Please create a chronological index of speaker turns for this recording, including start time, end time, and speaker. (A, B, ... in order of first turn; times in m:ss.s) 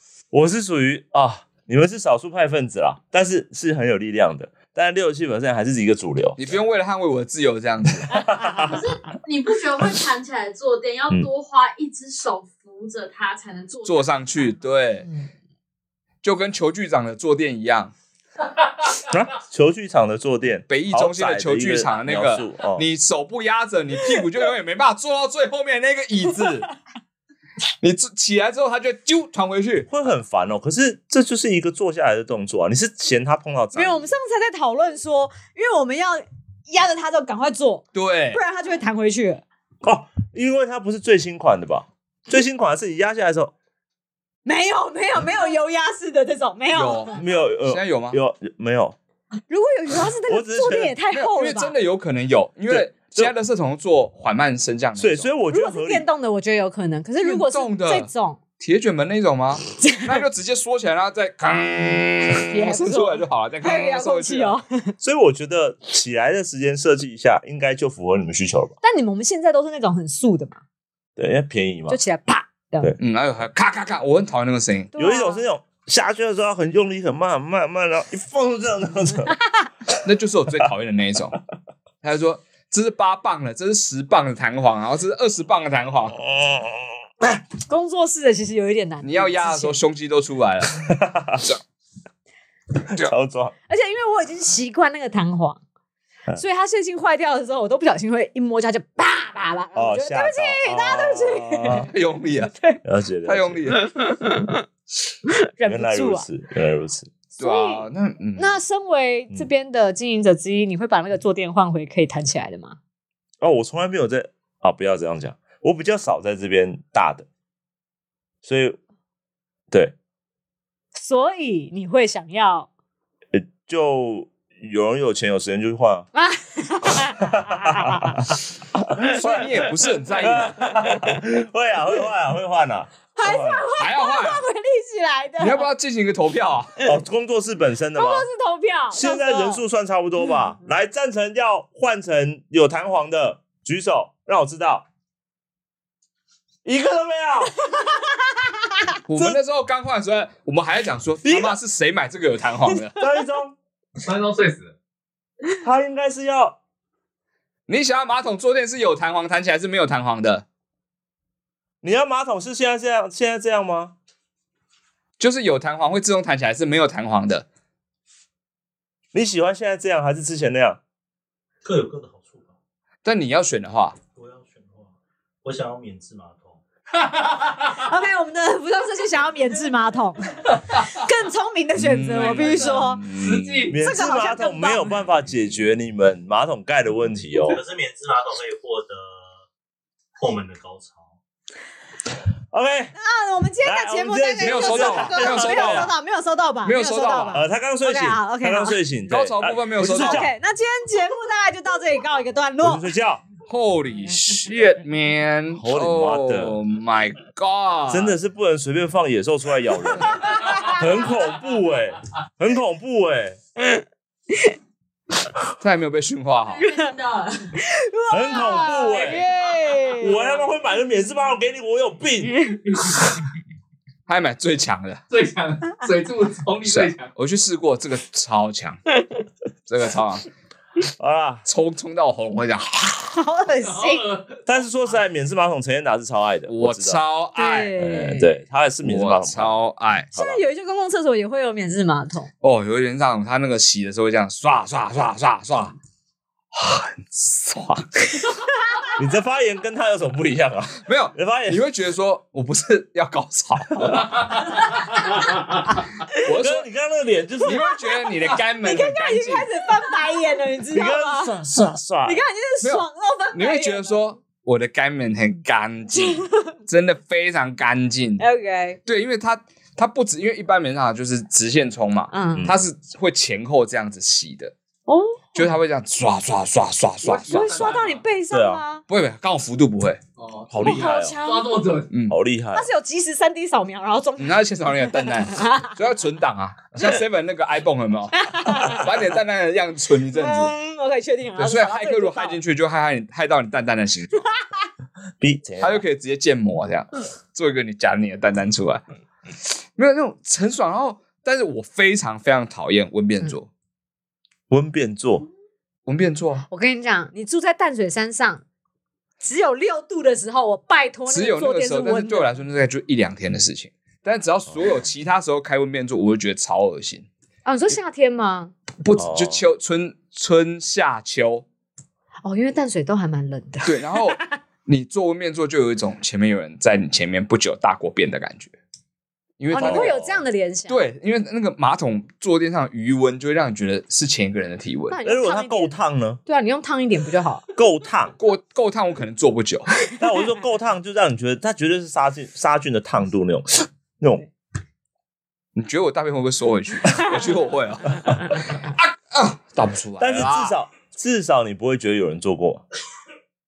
0:00.3-0:06.6 A
0:06.4-0:08.2 B
0:08.1-0:08.8 A
0:08.6-0:14.5 C
0:13.8-0:15.1 B
0:16.2-0:17.9 B
0:19.1-0:22.9 A
0:20.7-0:26.7 B
0:27.8-0:29.9 B
0:29.9-0:34.1 A
0:33.7-0:39.4 D
0:37.9-0:38.4 B
0:39.8-0:43.5 A
0:44.4-0:47.1 D
0:46.7-0:48.2 B
0:47.1-0:49.0 A
0:49.5-0:51.7 D
0:50.2-0:50.9 A
0:51.1-0:55.3 B
0:52.7-0:53.3 A
0:55.0-0:56.1 A
0:55.5-0:58.4 D
0:57.2-1:04.6 B
0:59.8-1:00.2 D
1:02.3-1:04.9 D
1:05.0-1:08.7 A
1:08.8-1:10.6 D
1:11.2-1:12.0 A
1:11.9-1:12.9 D
1:13.0-1:14.9 B
1:14.9-1:19.4 A
1:15.0-1:15.4 D
1:20.0-1:21.4 B
1:22.0-1:26.2 B
1:26.2-1:27.0 A
1:27.6-1:29.8 D
1:29.0-1:30.9 B
1:30.8-1:31.4 A
1:32.9-1:33.5 A
1:33.7-1:35.6 D
1:36.4-1:41.9 D
1:39.7-1:41.9 A
1:41.8-1:42.5 B
1:42.8-1:43.7 A
1:43.2-1:43.9 B
1:45.4-1:46.2 D
1:45.6-1:47.1 A
1:47.4-1:52.8 D
1:47.4-1:48.6 B
1:53.4-1:57.2 A
1:58.4-1:58.8 A
2:01.0-2:02.7 D
2:03.3-2:06.1 A
2:06.1-2:08.2 D
2:07.2-2:13.7 A
2:09.0-2:10.6 B
2:13.1-2:15.6 D
2:13.8-2:14.4 B
2:15.4-2:16.7 B
2:16.8-2:18.3 A
2:17.9-2:19.6 D
2:18.9-2:24.8 A
2:26.6-2:27.6 A
2:27.7-2:28.1 D
2:29.0-2:33.0 B
2:29.1-2:29.4 A
2:31.2-2:31.6 A
2:33.0-2:33.6 A
2:34.0-2:34.7 E
2:35.6-2:36.6 A
2:37.7-2:40.4 B
2:41.8-2:44.0 A
2:45.2-2:47.4 B
2:49.1-2:50.8 A
2:51.6-2:52.5 F
2:53.0-2:54.0 B
2:54.2-2:54.9 F
2:55.4-2:56.6 F
2:57.7-3:03.0 D
3:01.8-3:03.7 B
3:02.3-3:03.8 E
3:03.7-3:07.6 A
3:03.7-3:05.0 D
3:07.3-3:09.3 F
3:10.2-3:11.1 F
3:12.5-3:12.9 A
3:13.0-3:18.8 D
3:13.6-3:15.9 A
3:14.4-3:15.9 B
3:16.6-3:17.4 B
3:17.3-3:20.3 A
3:19.1-3:20.3 B
3:19.8-3:22.9 D
3:22.6-3:23.2 A
3:23.5-3:28.2 B
3:25.6-3:26.6 A
3:27.9-3:33.4 A
3:30.2-3:30.8 D
3:35.6-3:36.6 B
3:36.4-3:37.5 C
3:36.6-3:36.9 D
3:37.5-3:40.4 D
3:38.1-3:39.2 A
3:40.0-3:42.5 A
3:44.1-3:45.0 B
3:45.1-3:47.1 E
3:46.6-3:48.8 B
3:49.7-3:50.3 B
3:51.0-3:51.4 A
3:51.4-3:53.1 B
3:53.1-3:54.1 D
3:53.6-3:54.7 E
3:54.4-3:57.0 A
3:56.5-3:57.7 B
3:57.4-3:58.3 D
3:57.8-3:59.6 A
3:58.8-4:00.1 B
4:00.1-4:00.4 A
4:00.1-4:02.3 D
4:02.4-4:05.7 B
4:06.5-4:08.2 B
4:09.0-4:11.6 A
4:10.8-4:14.5 B
4:16.1-4:16.7 B
4:16.2-4:17.6 A
4:17.4-4:19.5 B
4:17.5-4:21.3 D
4:20.7-4:22.2 A
4:22.0-4:24.0 D
4:22.6-4:28.2 B
4:26.0-4:26.5 D
4:28.2-4:28.8 D
4:28.8-4:34.5 B
4:32.1-4:32.5 D
4:34.9-4:35.5 D
4:35.3-4:37.7 B
4:37.0-4:38.0 E
4:37.2-4:38.8 D
4:38.3-4:38.6 A
4:38.9-4:40.0 B
4:40.2-4:41.9 E
4:40.5-4:41.2 A
4:40.6-4:41.5 D
4:41.9-4:42.2 B
4:42.1-4:42.7 A
4:42.5-4:44.4 D
4:44.2-4:50.5 B
4:45.3-4:45.7 D
4:46.7-4:47.0 A
4:48.1-4:48.9 D
4:50.1-4:52.4 D
4:51.4-4:54.3 B
4:55.2-4:55.8 A
4:55.6-4:58.8 B
4:59.8-5:03.5 B
5:04.5-5:05.3 A
5:05.8-5:06.4 B
5:06.5-5:08.4 D
5:09.2-5:12.3 D
5:11.1-5:17.1 B
5:17.4-5:18.5 D
5:18.8-5:21.4 B
5:19.0-5:19.5 A
5:22.2-5:24.1 D
5:23.6-5:28.5 B
5:29.4-5:30.2 B
5:29.5-5:30.8 D
5:29.5-5:30.2 A
5:30.7-5:35.0 B
5:34.9-5:37.4 D
5:35.0-5:36.2 A
5:37.6-5:38.1 A
5:38.2-5:39.7 B
5:40.0-5:44.2 A
5:45.6-5:50.5 B
5:50.0-5:52.6 A